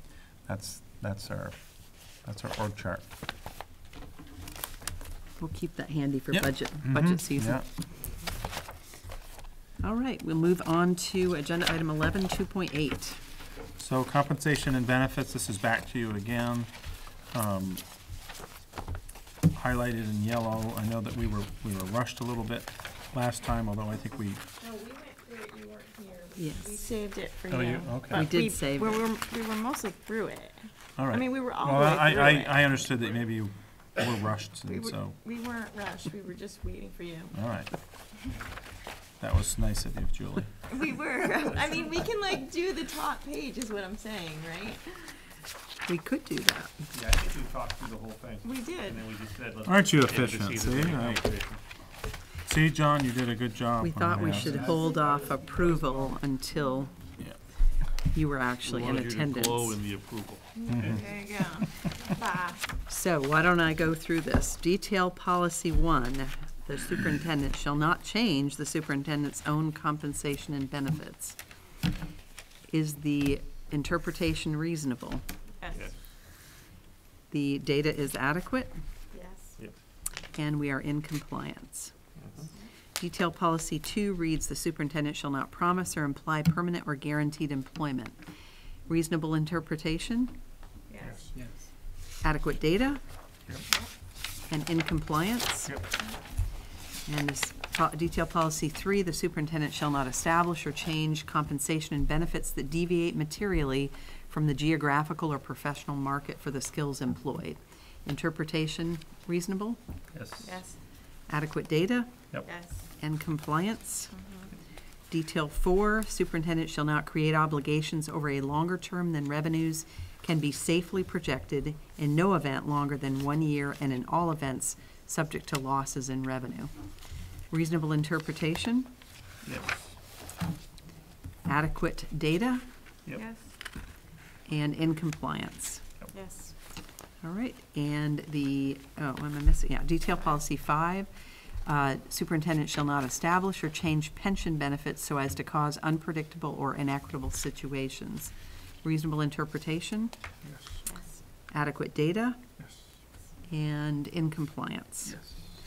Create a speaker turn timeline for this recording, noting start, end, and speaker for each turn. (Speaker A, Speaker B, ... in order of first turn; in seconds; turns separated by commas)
Speaker A: 0.5-1.6, Speaker A: 2.2-3.0, Speaker B: 5.4-7.6, Speaker A: 6.3-7.7, Speaker B: 9.8-13.2, Speaker A: 13.8-16.7, Speaker A: 17.3-17.8, Speaker A: 19.5-24.4, Speaker C: 24.6-32.6, Speaker B: 26.4-26.8, Speaker A: 27.5-28.4, Speaker B: 28.1-29.0, Speaker A: 31.0-35.2, Speaker C: 34.7-37.3, Speaker A: 37.3-37.7, Speaker A: 39.2-40.5, Speaker C: 40.7-44.8, Speaker B: 45.9-46.7, Speaker D: 46.9-51.6, Speaker C: 48.4-49.0, Speaker A: 49.6-51.2, Speaker A: 52.5-54.7, Speaker B: 53.8-56.9, Speaker D: 54.2-56.2, Speaker B: 58.1-59.8, Speaker D: 58.6-61.0, Speaker C: 60.6-62.7, Speaker A: 60.7-61.0, Speaker B: 62.9-71.4, Speaker B: 72.7-75.2, Speaker C: 75.6-75.8, Speaker B: 77.3-78.7, Speaker C: 79.1-79.5, Speaker B: 80.3-81.9, Speaker B: 83.0-88.2, Speaker B: 88.9-90.3, Speaker C: 90.9-91.2, Speaker B: 92.2-93.0, Speaker B: 94.5-95.7, Speaker B: 97.1-109.8, Speaker A: 110.1-110.4, Speaker C: 110.4-110.8, Speaker B: 111.3-112.1, Speaker C: 112.4-112.8, Speaker B: 113.0-114.1, Speaker C: 114.1-114.5, Speaker B: 115.1-126.7, Speaker B: 127.5-128.9, Speaker D: 129.4-129.8, Speaker B: 131.4-132.6, Speaker C: 133.1-133.4, Speaker B: 134.5-135.8, Speaker C: 136.1-136.5, Speaker B: 137.2-141.1, Speaker B: 141.6-148.3, Speaker B: 148.8-150.1, Speaker C: 150.9-151.2, Speaker B: 151.5-152.4, Speaker B: 153.5-155.2